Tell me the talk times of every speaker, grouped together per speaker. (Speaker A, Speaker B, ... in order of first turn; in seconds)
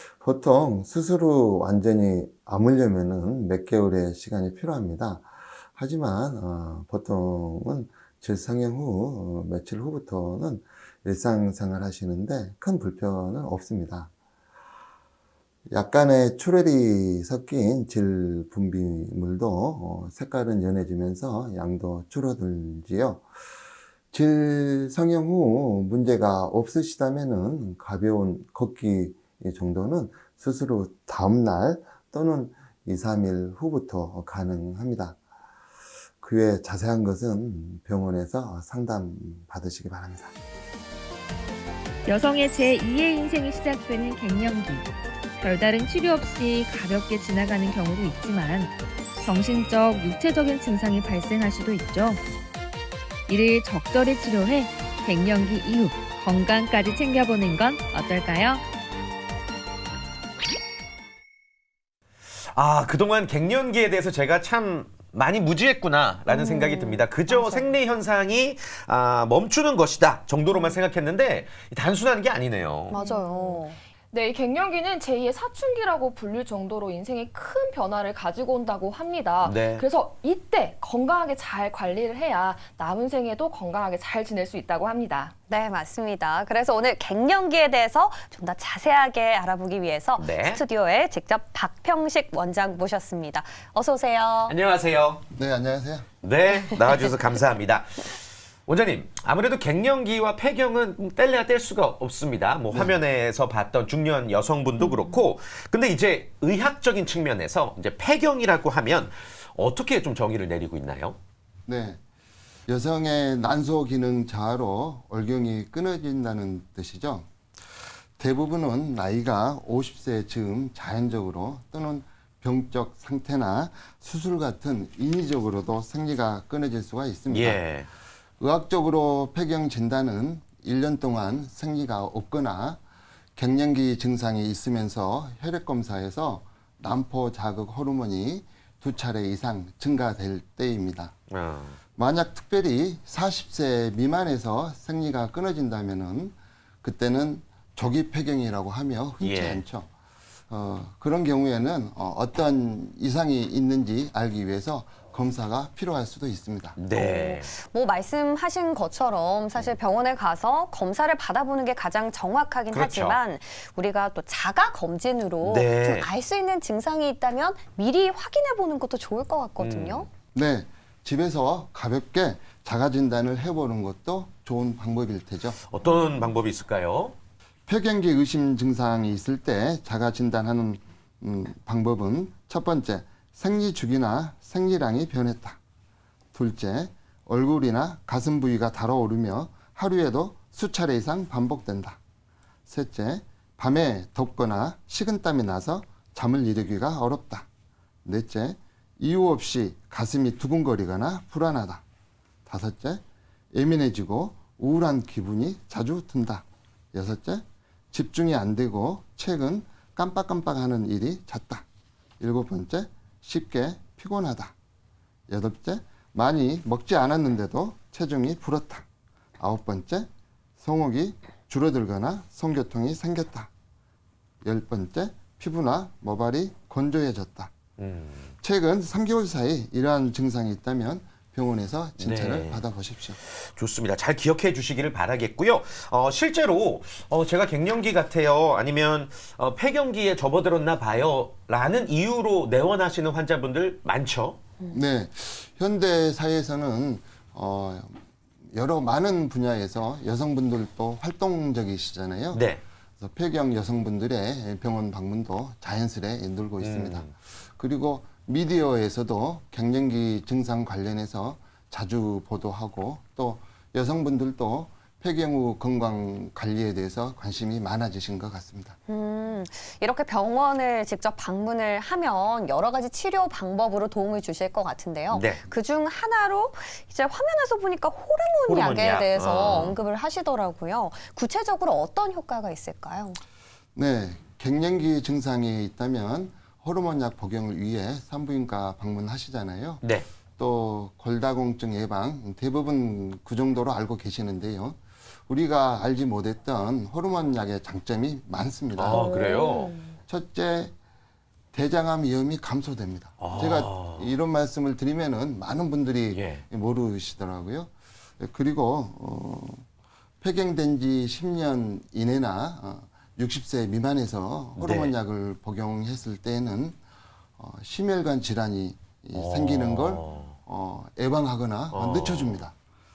Speaker A: 0.1-14.1, 15.7-23.3, 24.1-35.2, 36.2-40.4, 95.3-96.1, 102.7-103.0, 111.7-112.0, 112.7-127.6, 128.4-132.8, 133.4-141.1, 142.0-149.9, 150.5-156.8, 170.3-175.6, 177.7-185.6, 186.3-192.0, 192.7-197.5, 198.1-201.8, 202.5-211.7, 212.2-214.6, 215.3-218.9, 219.4-223.5, 224.4-227.5, 228.4-233.2, 244.7-252.4, 253.0-268.8, 283.8-289.8, 290.4-299.1, 300.1-300.7, 301.5-309.7, 310.2-316.8, 317.4-322.5
Speaker B: 42.1-52.2, 53.3-58.6
Speaker C: 62.5-73.0, 79.4-79.8, 90.2-90.6, 94.5-95.2, 96.2-111.2, 127.3-127.9, 141.3-141.8, 149.2-149.6, 156.8-157.5, 162.7-163.2, 165.4-166.1, 169.6-170.1, 175.6-177.2, 227.8-228.3, 232.0-232.7, 233.2-244.4, 252.3-252.6, 256.6-257.1, 275.1-275.5, 278.5-279.8, 289.8-290.1, 298.8-299.7, 303.2-304.1, 306.1-306.4, 314.6-314.9, 319.1-320.4, 321.7-322.5
Speaker D: 66.3-67.7, 72.9-73.8, 85.5-94.5, 96.7-97.1, 104.9-105.2, 156.9-170.1, 268.9-283.2, 298.9-300.0
Speaker E: 72.9-85.3